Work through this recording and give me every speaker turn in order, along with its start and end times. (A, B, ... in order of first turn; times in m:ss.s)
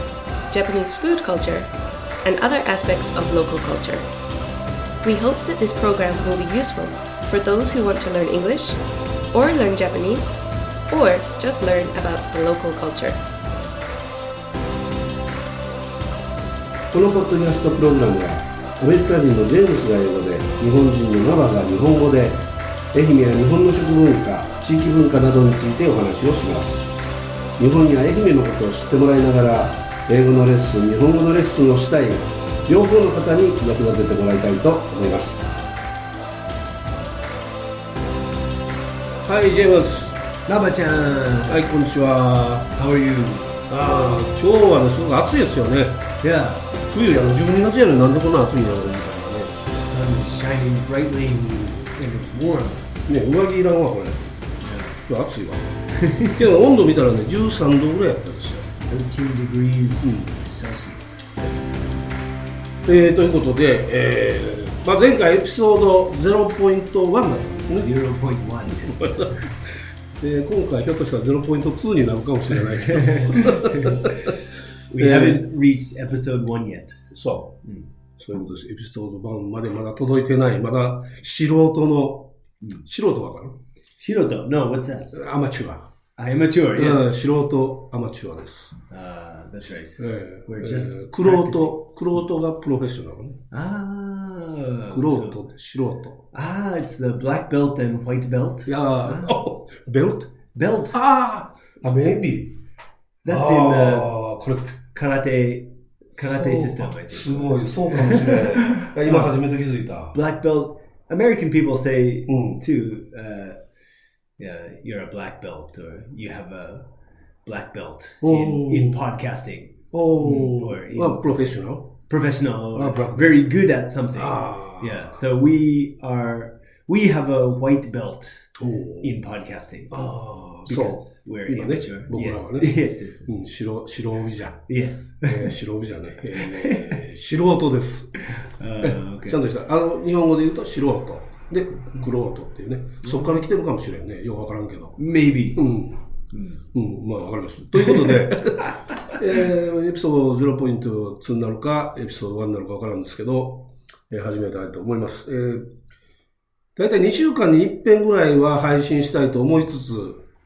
0:00.5-0:01.7 A
0:02.2-0:04.1 A
0:05.0-0:08.8 A
0:09.3-0:13.2 A
0:16.9-0:26.9 B
0:27.6-0:35.5 B
0:39.2-0:40.2 B
0:40.5-0:41.6 C
0:41.4-0:42.7 B
0:42.7-0:43.7 C
0:43.7-0:46.0 B
0:46.2-0:46.7 C
0:46.9-0:49.6 B
0:49.7-0:52.9 C
0:51.4-0:51.8 B
0:53.1-0:54.3 B
0:54.6-0:55.0 C
0:55.1-0:55.8 B
0:55.9-0:56.4 C
0:56.3-0:58.7 B
0:58.9-1:01.5 C
1:00.0-1:00.4 B
1:02.8-1:07.9 B
1:07.6-1:09.5 C
1:08.8-1:09.4 B
1:10.2-1:14.3 B
1:12.8-1:14.3 C
1:14.9-1:17.0 C
1:15.0-1:15.5 B
1:17.1-1:17.6 B
1:18.2-1:22.3 B
1:22.8-1:23.6 B
1:24.0-1:25.1 C
1:25.1-1:25.9 B
1:26.2-1:27.2 C
1:26.7-1:28.7 B
1:28.9-1:31.8 C
1:30.0-1:33.4 B
1:33.5-1:35.4 C
1:34.9-1:36.2 B
1:36.3-1:39.4 C
1:38.6-1:40.4 B
1:40.5-1:41.0 C
1:40.9-1:42.6 B
1:43.2-1:44.2 C
1:43.2-1:44.7 B
1:44.8-1:49.4 C
1:46.2-1:50.2 B
1:50.1-1:53.6 C
1:52.3-1:52.6 B
1:54.4-1:56.9 C
1:57.4-2:09.9 C
1:58.2-1:59.0 B
1:59.9-2:01.9 B
2:02.7-2:03.5 B
2:04.1-2:05.2 B
2:08.6-2:09.1 B
2:09.9-2:14.6 B
2:10.6-2:13.3 C
2:14.7-2:15.6 C
2:15.2-2:18.2 B
2:16.3-2:17.0 C
2:18.3-2:19.4 C
2:18.8-2:25.0 B
2:23.0-2:23.4 C
2:25.0-2:25.7 C
2:25.6-2:26.0 B
2:26.3-2:26.6 C
2:26.7-2:35.7 B
2:27.8-2:29.1 C
2:36.8-2:40.2 B